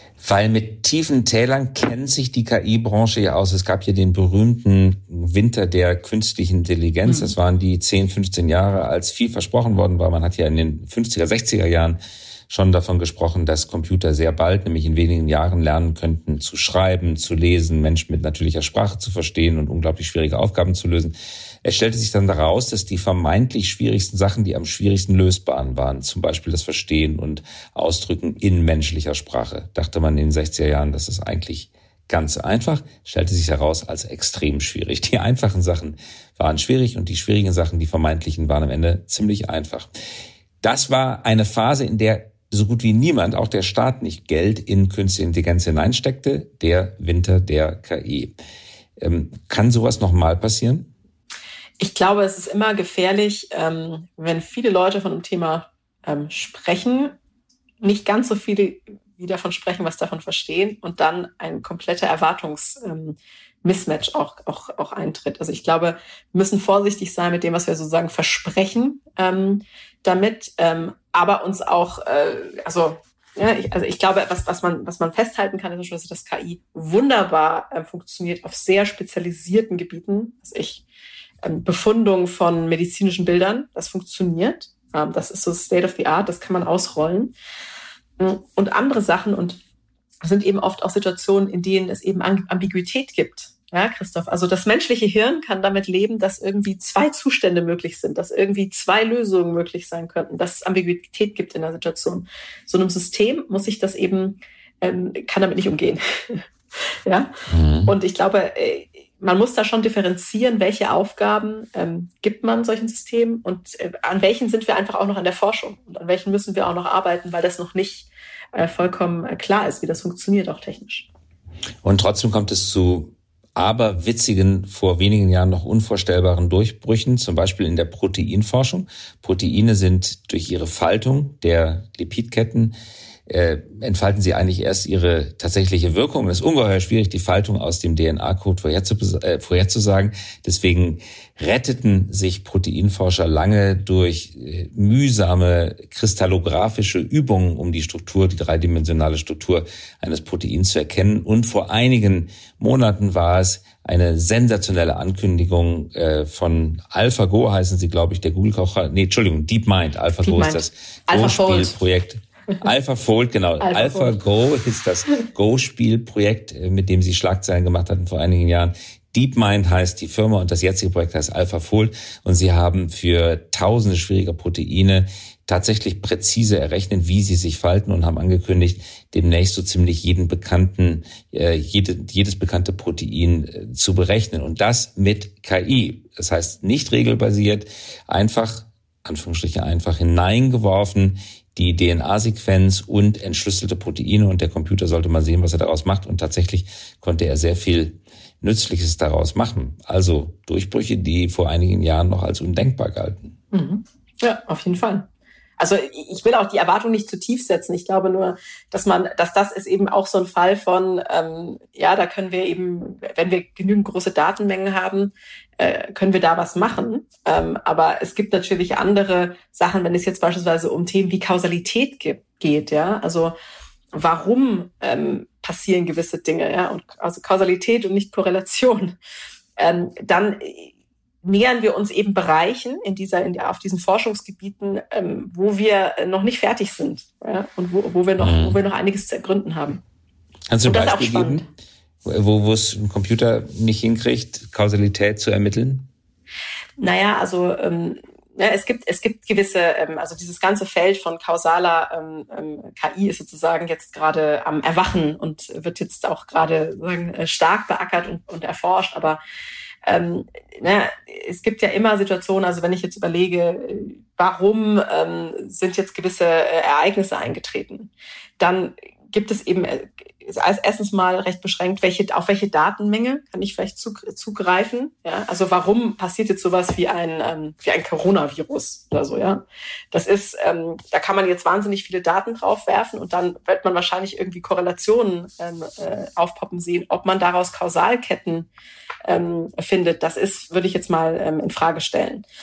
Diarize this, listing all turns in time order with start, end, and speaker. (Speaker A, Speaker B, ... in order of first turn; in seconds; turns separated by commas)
Speaker A: 0.2-39.9, Speaker B: 7.0-7.3, Speaker A: 40.6-48.3, Speaker A: 49.0-50.9, Speaker B: 51.8-57.1, Speaker B: 57.8-80.8, Speaker B: 81.4-87.3, Speaker B: 88.2-89.6, Speaker B: 90.2-107.3, Speaker A: 107.5-107.9, Speaker B: 107.8-121.1, Speaker A: 121.8-132.7, Speaker A: 133.3-203.3, Speaker B: 160.2-161.8, Speaker B: 163.6-164.2, Speaker B: 203.5-205.1, Speaker B: 205.6-223.3, Speaker B: 223.9-229.0, Speaker B: 229.6-239.8, Speaker A: 238.2-238.6, Speaker A: 240.5-241.4, Speaker B: 240.6-241.4, Speaker A: 242.0-245.9, Speaker B: 246.8-259.2, Speaker B: 259.9-288.5, Speaker B: 289.1-292.2